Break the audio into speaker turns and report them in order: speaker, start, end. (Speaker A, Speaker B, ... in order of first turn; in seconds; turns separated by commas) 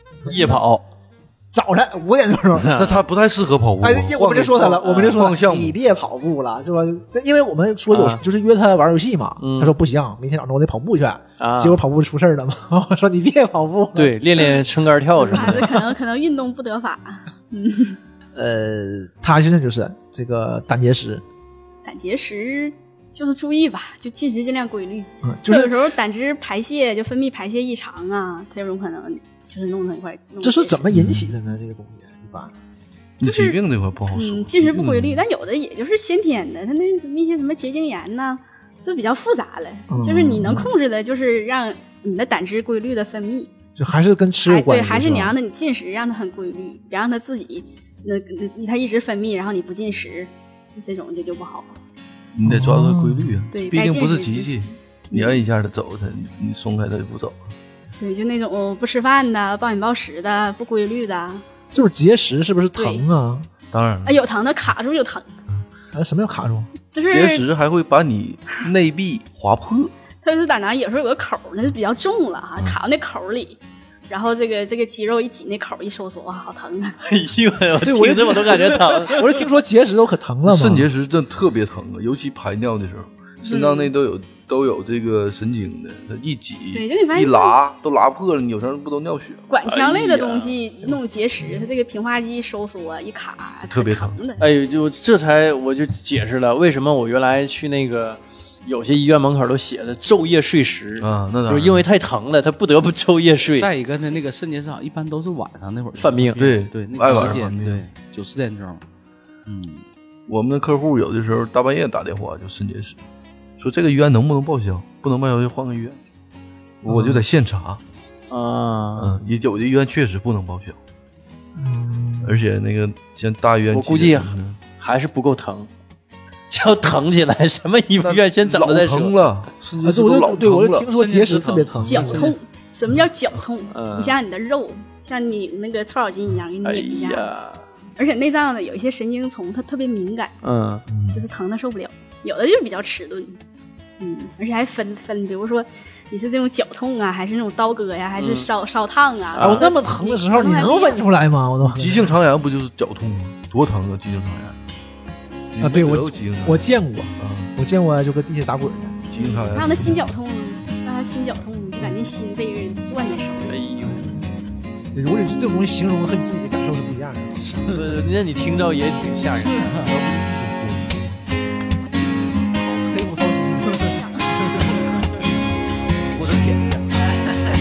Speaker A: 0.2-0.6, Speaker B: 0.2-0.8, Speaker A: 1.5-2.9, Speaker B: 2.5-3.0, Speaker C: 2.8-5.8, Speaker A: 3.8-14.6, Speaker B: 4.8-5.2, Speaker B: 7.9-8.2, Speaker B: 9.4-9.7, Speaker B: 11.4-11.8, Speaker B: 13.9-15.7, Speaker D: 15.2-18.0, Speaker A: 15.3-15.7, Speaker A: 18.3-21.2, Speaker D: 21.8-30.8, Speaker A: 25.2-25.8, Speaker A: 30.4-32.5, Speaker C: 30.9-31.3, Speaker C: 33.2-35.2, Speaker D: 33.2-33.6, Speaker D: 34.1-43.5, Speaker A: 39.9-40.7, Speaker A: 43.8-45.4, Speaker D: 44.4-51.8, Speaker C: 52.3-57.4, Speaker A: 52.4-53.5, Speaker D: 53.5-55.4, Speaker D: 58.0-61.4, Speaker A: 61.7-63.5, Speaker D: 62.7-63.0, Speaker C: 63.7-64.2, Speaker D: 64.0-65.3, Speaker A: 65.9-66.7, Speaker D: 66.9-67.5, Speaker C: 67.0-69.9, Speaker D: 70.2-77.0, Speaker B: 77.0-79.3, Speaker A: 77.8-80.9, Speaker C: 80.5-89.5, Speaker D: 83.4-83.9, Speaker D: 86.7-87.5, Speaker D: 89.5-94.4, Speaker B: 89.6-90.5, Speaker C: 93.7-94.2, Speaker B: 94.4-103.7, Speaker C: 101.0-101.9, Speaker E: 103.5-108.8, Speaker B: 106.0-106.4, Speaker C: 106.3-107.8, Speaker B: 107.1-107.3, Speaker E: 109.5-109.8, Speaker C: 110.3-113.0, Speaker C: 113.6-116.0, Speaker C: 116.8-117.8, Speaker A: 116.9-117.2, Speaker B: 118.3-119.2, Speaker C: 119.0-120.8, Speaker A: 121.5-122.4, Speaker C: 122.2-124.6, Speaker B: 123.7-125.7, Speaker B: 126.5-129.2, Speaker C: 128.0-130.9, Speaker A: 129.8-132.3, Speaker E: 130.9-132.0, Speaker D: 131.8-137.3, Speaker B: 133.7-134.2, Speaker B: 136.6-137.6, Speaker D: 137.9-140.3, Speaker B: 140.4-140.8, Speaker C: 140.9-141.2, Speaker D: 141.1-143.4, Speaker D: 144.0-151.0, Speaker B: 148.2-148.5, Speaker B: 149.3-149.7, Speaker A: 149.4-152.2, Speaker C: 151.7-154.6, Speaker C: 155.5-157.5, Speaker A: 155.6-159.0, Speaker C: 159.1-160.1, Speaker D: 159.1-163.6, Speaker B: 163.5-164.2, Speaker A: 163.8-164.2, Speaker A: 164.9-167.7, Speaker B: 167.6-169.7, Speaker C: 169.7-171.2, Speaker A: 172.8-174.8, Speaker D: 173.7-174.4, Speaker E: 176.4-176.7